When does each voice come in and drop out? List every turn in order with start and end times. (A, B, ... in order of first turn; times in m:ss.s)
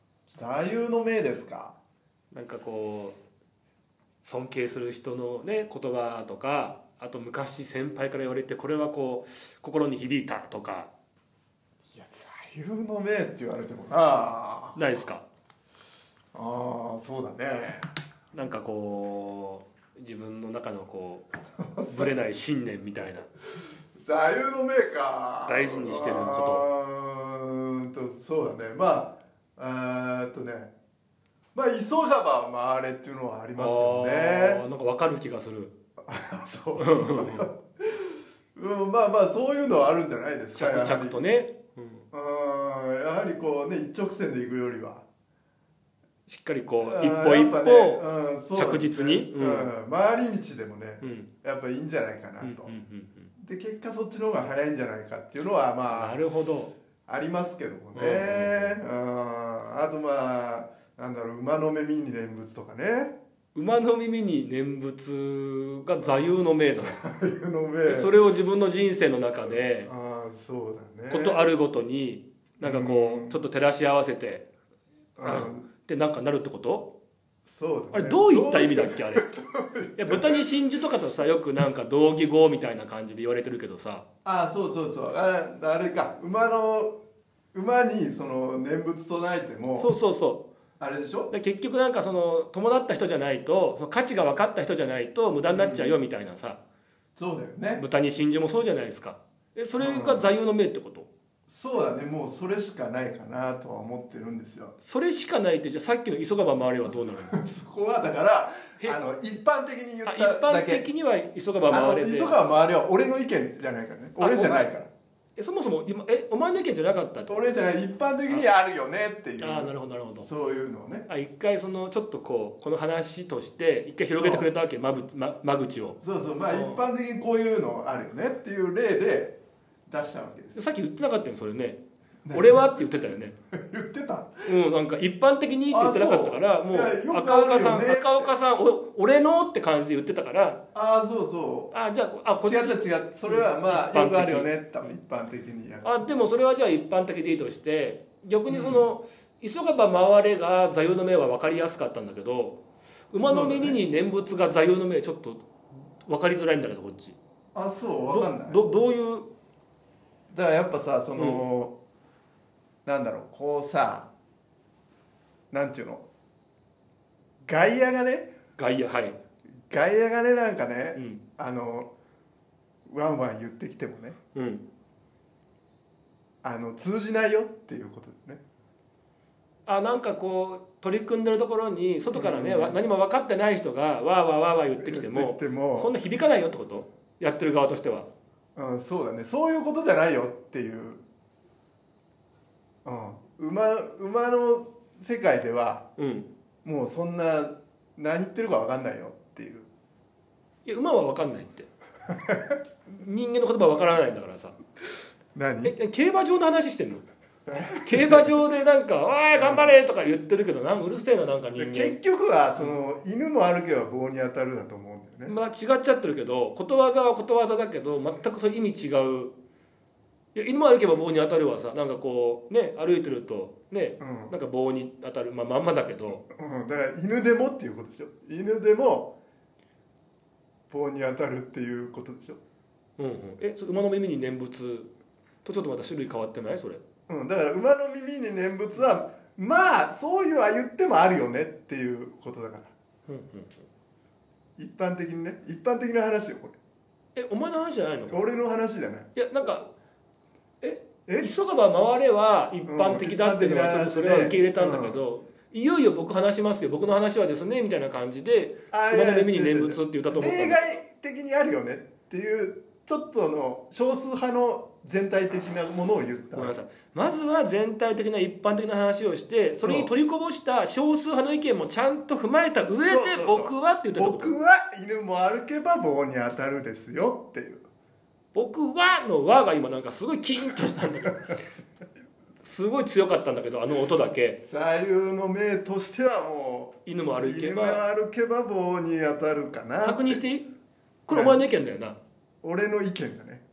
0:00.3-0:01.8 A
0:02.3-0:03.2 B
0:04.2-0:10.9 B
0:11.9-0:15.0 A
0:14.8-0:15.3 B
0:16.3-0:17.9 A
0:18.3-0:21.3 B
0:21.6-0:22.1 A
0:21.9-0:23.3 B
0:24.0-0:30.7 A
0:25.5-0:26.7 B
0:31.6-0:34.6 A
0:33.6-0:35.7 B
0:36.0-0:41.2 A
0:36.8-0:37.5 B
0:40.6-0:42.0 B
0:42.1-0:45.0 A
0:46.3-0:49.7 B
0:46.8-0:52.7 A
0:51.0-0:51.3 B
0:52.4-0:53.3 B
0:53.4-0:56.2 A
0:55.9-0:56.7 B
0:57.1-1:03.2 A
0:57.9-0:58.8 B
1:03.6-1:07.0 B
1:06.9-1:08.1 A
1:07.8-1:09.9 B
1:09.9-1:11.4 A
1:11.1-1:14.5 B
1:12.6-1:13.4 A
1:15.2-1:15.7 A
1:15.2-1:16.9 B
1:17.5-1:20.4 A
1:17.9-1:19.3 B
1:20.0-1:24.0 B
1:24.2-1:27.0 A
1:27.5-1:29.9 A
1:29.8-1:30.5 B
1:30.8-1:31.3 A
1:31.3-1:36.6 B
1:35.5-1:36.0 A
1:37.2-1:37.8 A
1:37.8-1:41.1 B
1:39.8-1:40.3 A
1:41.5-1:44.7 A
1:44.8-1:47.4 B
1:47.2-1:50.9 A
1:50.0-1:52.4 B
1:51.7-1:54.9 A
1:54.2-1:54.7 B
1:55.4-1:57.5 B
1:57.3-2:01.1 A
1:59.4-2:00.3 B
2:01.1-2:06.8 B
2:04.1-2:04.5 A
2:06.0-2:10.6 A
2:10.6-2:11.8 B
2:12.2-2:14.5 A
2:12.3-2:13.4 B
2:14.5-2:20.6 B
2:15.7-2:18.3 A
2:20.7-2:21.7 A
2:21.7-2:24.5 B
2:22.4-2:26.0 A
2:25.8-2:32.6 B
2:28.5-2:28.9 A
2:33.1-2:35.5 B
2:33.2-2:33.8 A
2:36.0-2:37.2 B
2:37.6-2:38.6 A
2:38.1-2:39.3 B
2:40.3-2:41.8 A
2:41.2-2:41.4 B
2:42.8-2:44.1 A
2:45.5-2:46.0 A
2:47.4-2:48.3 A
2:48.6-2:49.2 B
2:49.7-2:51.9 A
2:51.0-2:51.2 B
2:52.9-2:54.2 A
2:54.3-2:54.6 B
2:56.4-2:58.4 A
2:59.7-3:08.1 B
3:02.1-3:02.8 A
3:04.8-3:06.0 A
3:08.6-3:11.0 A
3:12.8-3:15.9 A
3:16.0-3:16.3 B
3:16.6-3:19.7 A
3:20.6-3:21.7 B
3:22.1-3:22.6 A
3:22.9-3:24.6 B
3:25.4-3:25.8 A
3:25.6-3:32.0 B
3:27.5-3:28.3 A
3:29.4-3:29.7 A
3:31.6-3:35.4 A
3:35.3-3:39.3 B
3:40.4-3:46.2 B
3:44.0-3:44.4 A
3:46.3-3:49.2 A
3:50.7-3:52.4 A
3:53.0-3:54.9 B
3:55.4-3:56.8 B
3:57.1-4:02.7 A
4:03.1-4:03.6 B
4:04.6-4:06.6 A
4:07.2-4:08.2 B
4:08.1-4:09.2 A
4:09.2-4:09.7 B
4:10.6-4:20.8 B
4:12.6-4:15.0 A
4:18.7-4:26.5 A
4:26.3-4:34.3 B
4:29.6-4:29.9 A
4:32.6-4:37.6 A
4:38.4-4:41.4 B
4:42.4-4:44.4 B
4:44.4-4:50.2 A
4:46.9-4:47.8 B
4:49.8-4:50.5 B
4:51.1-4:52.0 B
4:51.1-4:51.4 A
4:52.4-4:53.4 A